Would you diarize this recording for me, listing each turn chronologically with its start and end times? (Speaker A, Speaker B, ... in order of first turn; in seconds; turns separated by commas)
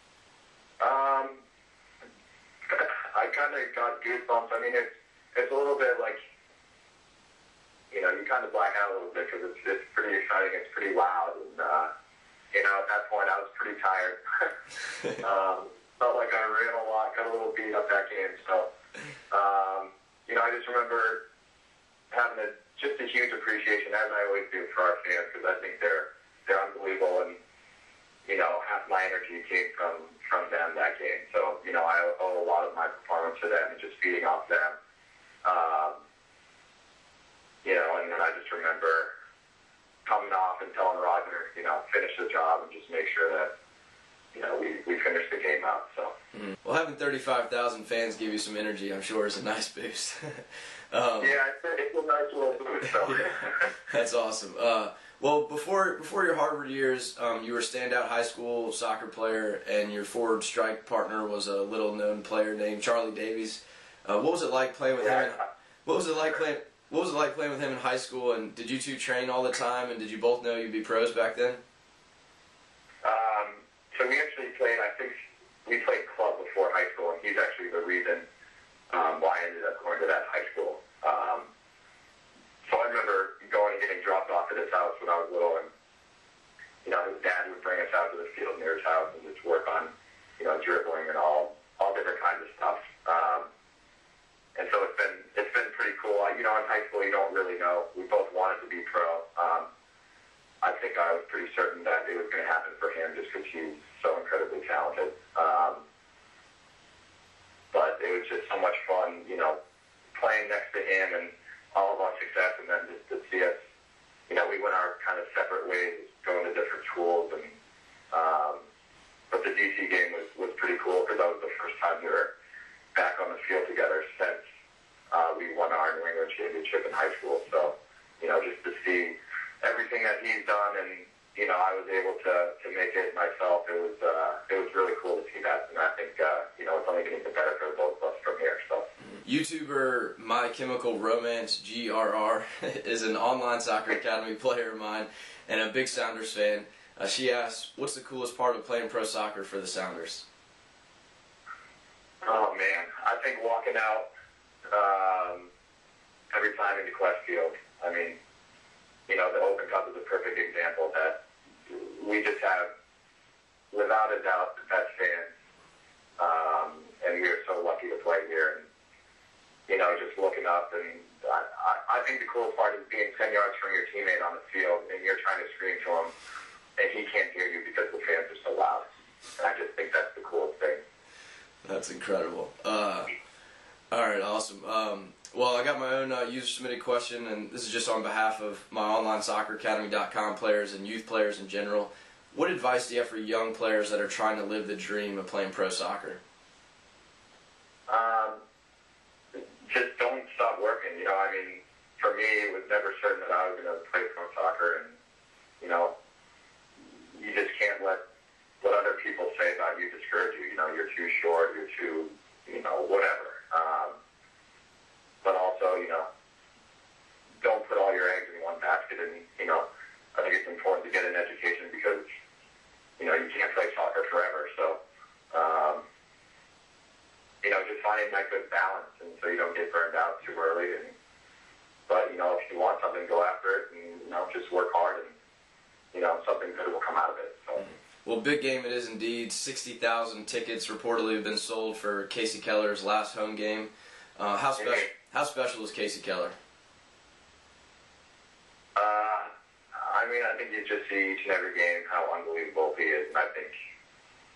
Speaker A: 0.8-1.4, Speaker A: 2.7-6.2, Speaker A: 7.9-11.9, Speaker A: 12.5-14.5, Speaker A: 15.2-18.7, Speaker A: 19.3-21.2, Speaker A: 22.1-27.4, Speaker A: 28.3-34.8, Speaker A: 35.5-36.0, Speaker A: 37.6-39.1, Speaker A: 40.1-43.5, Speaker A: 44.3-46.1, Speaker B: 46.4-51.4, Speaker A: 51.2-53.7, Speaker B: 53.9-71.6, Speaker A: 73.0-75.1, Speaker A: 75.7-78.2, Speaker A: 78.9-81.5, Speaker A: 82.7-85.7, Speaker A: 86.8-93.5, Speaker A: 94.6-99.7, Speaker A: 100.6-105.8, Speaker A: 107.7-109.6, Speaker A: 110.1-113.5, Speaker A: 114.3-117.6, Speaker A: 118.1-118.6, Speaker A: 119.3-122.3, Speaker A: 123.0-124.4, Speaker A: 125.1-138.8, Speaker B: 139.2-150.2, Speaker A: 152.2-154.1, Speaker A: 154.7-155.5, Speaker A: 156.3-158.2, Speaker A: 159.1-161.2, Speaker A: 161.7-162.7, Speaker A: 163.7-165.3, Speaker A: 166.2-168.7, Speaker A: 169.7-176.1, Speaker A: 176.8-178.8, Speaker A: 179.4-180.8, Speaker B: 181.7-183.1, Speaker B: 183.9-196.2, Speaker A: 197.9-198.4, Speaker A: 199.6-205.0, Speaker A: 205.6-205.9, Speaker A: 207.1-208.0, Speaker A: 208.6-213.9, Speaker A: 215.2-216.1, Speaker A: 217.4-222.0, Speaker A: 223.0-224.8, Speaker A: 225.3-225.8, Speaker A: 227.4-230.9, Speaker A: 231.9-235.2, Speaker A: 235.9-237.7, Speaker B: 238.1-246.3, Speaker A: 244.6-244.9, Speaker A: 248.8-253.5